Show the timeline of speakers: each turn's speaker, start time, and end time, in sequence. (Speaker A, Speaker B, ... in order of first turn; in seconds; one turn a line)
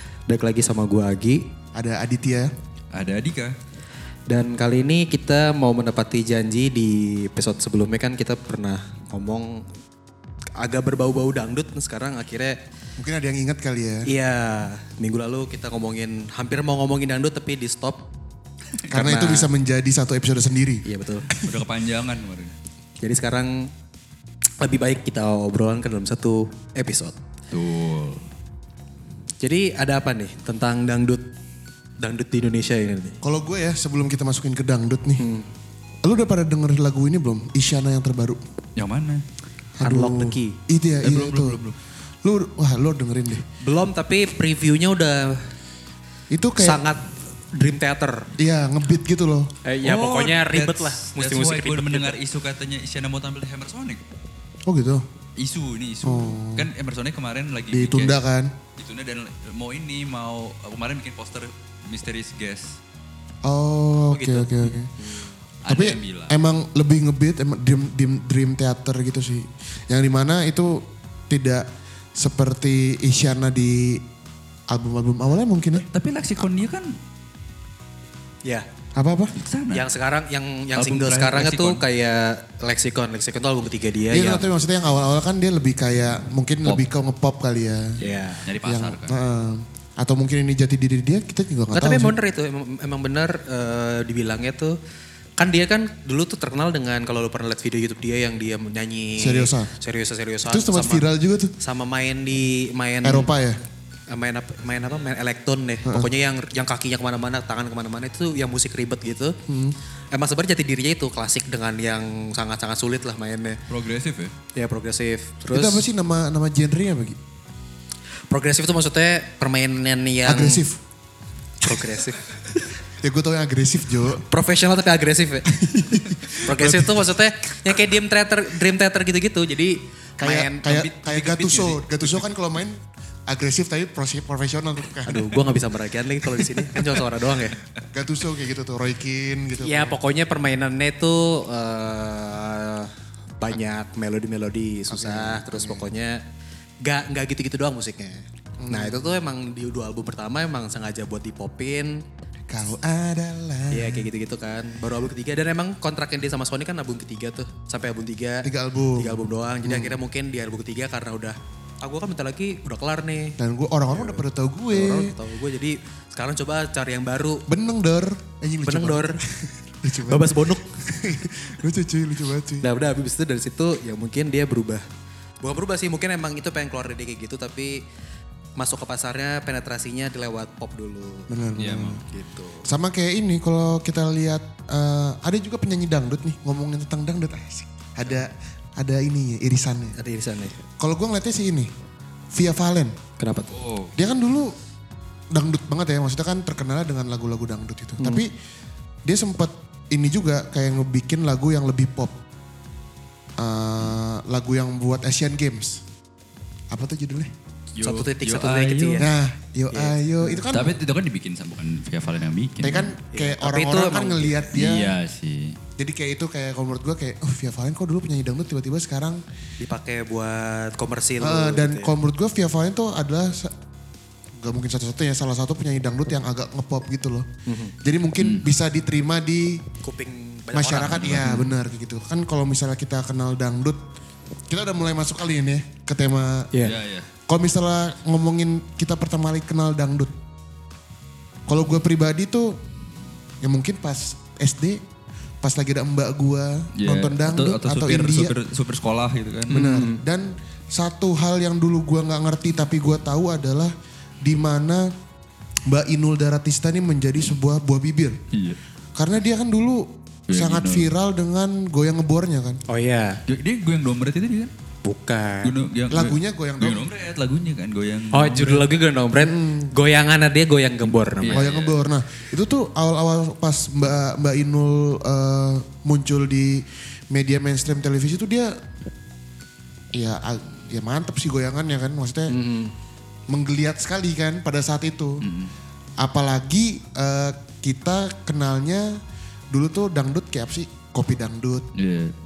Speaker A: 0.3-1.4
Speaker B: 1.7-2.5
Speaker C: 2.9-3.5
Speaker A: 4.3-9.7
Speaker A: 10.6-12.6
Speaker B: 13.0-14.1
Speaker A: 14.0-18.0
Speaker A: 18.9-19.5
Speaker B: 18.9-21.6
Speaker A: 20.8-21.3
Speaker C: 21.4-22.5
Speaker A: 23.0-23.7
Speaker A: 24.6-27.1
Speaker C: 27.5-28.2
Speaker A: 29.4-31.2
Speaker A: 32.0-33.2
Speaker B: 33.2-35.2
Speaker A: 35.2-35.5
Speaker B: 36.0-38.4
Speaker C: 38.8-39.2
Speaker B: 39.8-41.6
Speaker A: 39.8-40.5
Speaker C: 41.0-41.8
Speaker B: 42.2-43.4
Speaker A: 43.6-45.5
Speaker B: 46.3-46.8
Speaker A: 46.6-48.3
Speaker B: 48.4-49.5
Speaker A: 49.6-52.1
Speaker C: 49.8-54.0
Speaker B: 54.6-55.0
Speaker C: 55.4-58.2
Speaker B: 56.0-56.7
Speaker B: 57.7-58.5
Speaker C: 58.8-62.8
Speaker B: 63.4-64.9
Speaker A: 64.1-65.3
Speaker C: 65.6-66.4
Speaker B: 65.6-74.0
Speaker B: 74.7-75.8
Speaker C: 75.8-77.0
Speaker B: 78.9-79.3
Speaker C: 79.3-79.8
Speaker A: 79.7-84.4
Speaker C: 80.8-81.8
Speaker B: 84.1-88.0
Speaker A: 88.0-88.5
Speaker C: 88.0-89.2
Speaker B: 88.6-92.1
Speaker A: 91.7-94.8
Speaker A: 95.4-101.0
Speaker B: 99.2-99.7
Speaker B: 100.5-101.5
Speaker A: 101.6-103.3
Speaker B: 103.0-103.6
Speaker A: 104.1-109.4
Speaker B: 109.5-109.8
Speaker A: 110.1-113.6
Speaker C: 113.7-114.3
Speaker A: 114.5-115.9
Speaker B: 115.5-117.2
Speaker A: 118.3-120.6
Speaker B: 120.2-120.8
Speaker A: 121.6-122.3
Speaker B: 122.9-124.2
Speaker A: 124.2-125.5
Speaker B: 125.5-127.0
Speaker A: 126.4-132.1
Speaker B: 130.2-135.3
Speaker A: 135.1-137.6
Speaker B: 137.9-140.0
Speaker A: 139.6-146.2
Speaker B: 144.9-145.9
Speaker A: 146.8-152.0
Speaker B: 148.6-149.1
Speaker B: 152.5-154.1
Speaker A: 153.7-163.4
Speaker B: 158.4-160.0
Speaker B: 163.4-165.1
Speaker A: 163.9-167.4
Speaker B: 167.5-172.7
Speaker A: 168.6-169.2
Speaker A: 170.1-170.7
Speaker A: 172.6-174.8
Speaker A: 175.4-177.8
Speaker A: 178.6-181.3
Speaker B: 181.3-182.0
Speaker C: 181.6-182.0
Speaker A: 182.0-182.7
Speaker B: 182.7-189.9
Speaker A: 189.9-190.6
Speaker B: 190.8-191.7
Speaker B: 192.3-192.9
Speaker A: 193.2-193.5
Speaker C: 193.5-193.9
Speaker B: 193.9-194.5
Speaker B: 195.3-198.3
Speaker A: 198.0-198.2
Speaker B: 199.0-202.1
Speaker B: 203.4-205.8
Speaker B: 206.7-207.3
Speaker C: 207.8-209.1
Speaker A: 207.8-209.1
Speaker B: 209.0-210.8
Speaker A: 209.7-210.4
Speaker C: 210.5-212.9
Speaker B: 212.6-214.9
Speaker A: 213.1-214.5
Speaker C: 214.5-215.6
Speaker B: 215.8-219.2
Speaker A: 219.6-221.9
Speaker B: 221.2-223.5
Speaker B: 224.4-227.3
Speaker A: 227.5-227.7
Speaker B: 227.8-229.6
Speaker C: 228.2-228.5
Speaker A: 229.8-231.5
Speaker B: 230.5-233.8
Speaker C: 230.9-231.3
Speaker B: 234.5-236.5
Speaker C: 236.6-237.1
Speaker B: 237.3-240.1
Speaker B: 241.5-242.6
Speaker B: 243.4-244.8
Speaker B: 245.4-248.3
Speaker C: 246.8-249.7
Speaker B: 249.5-254.9
Speaker A: 249.5-250.0
Speaker B: 255.7-258.2
Speaker C: 258.3-258.6
Speaker B: 258.9-262.6
Speaker C: 260.3-260.9
Speaker A: 262.7-263.2
Speaker C: 263.3-264.5
Speaker A: 264.8-265.5
Speaker C: 265.4-268.8
Speaker B: 265.9-266.9
Speaker A: 268.1-271.4
Speaker B: 269.1-269.7
Speaker C: 271.2-271.8
Speaker B: 271.3-278.6
Speaker B: 279.9-282.3
Speaker A: 282.3-282.7
Speaker B: 283.3-285.2
Speaker C: 285.2-285.5
Speaker B: 286.0-289.0
Speaker B: 289.5-291.6
Speaker C: 291.7-292.1